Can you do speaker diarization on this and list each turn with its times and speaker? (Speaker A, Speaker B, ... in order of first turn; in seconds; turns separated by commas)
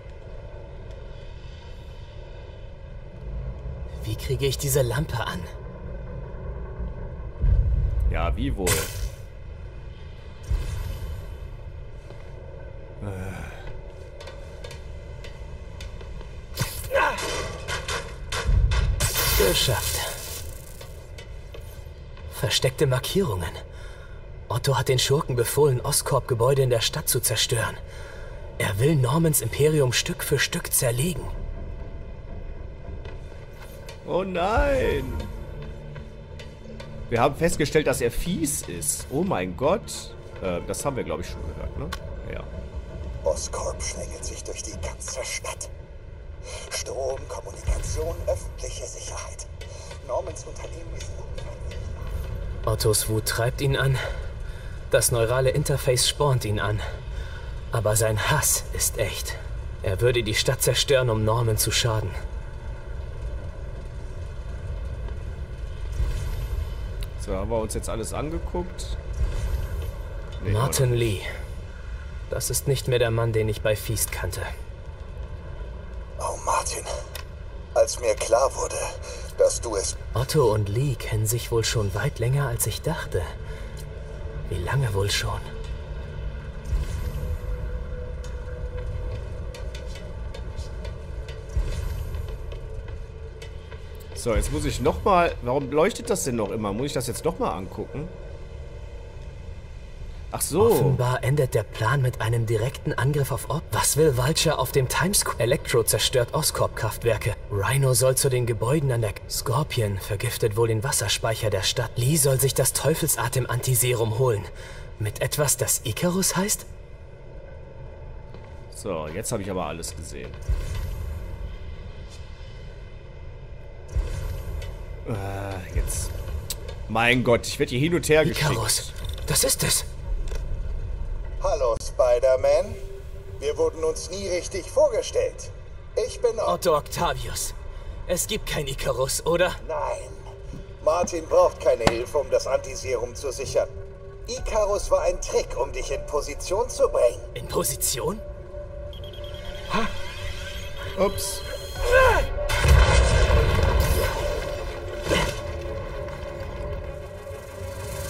Speaker A: 4.0-5.5, Speaker B: 8.1-8.9, Speaker B: 13.0-13.6, Speaker A: 19.4-20.1, Speaker A: 22.3-23.6, Speaker A: 24.5-27.8, Speaker A: 28.6-31.3, Speaker B: 34.0-35.3, Speaker B: 37.1-42.5, Speaker C: 43.2-45.7, Speaker C: 46.7-49.5, Speaker C: 50.0-51.5, Speaker A: 52.7-54.0, Speaker A: 54.9-56.8, Speaker A: 57.7-62.2, Speaker B: 67.2-69.0, Speaker B: 70.4-71.2, Speaker A: 70.5-71.3, Speaker A: 72.3-74.5, Speaker C: 76.2-76.9, Speaker C: 77.8-80.0, Speaker A: 80.2-83.3, Speaker A: 84.5-85.5, Speaker B: 94.2-98.1, Speaker B: 100.3-101.0, Speaker A: 100.6-116.7, Speaker B: 118.7-120.4, Speaker B: 125.0-126.1, Speaker B: 126.9-128.9, Speaker A: 128.2-129.9, Speaker C: 131.4-132.8, Speaker C: 133.4-136.6, Speaker A: 136.4-137.6, Speaker A: 138.1-139.6, Speaker C: 139.6-140.3, Speaker C: 140.8-143.7, Speaker C: 144.3-147.3, Speaker A: 147.4-148.2, Speaker B: 151.0-151.4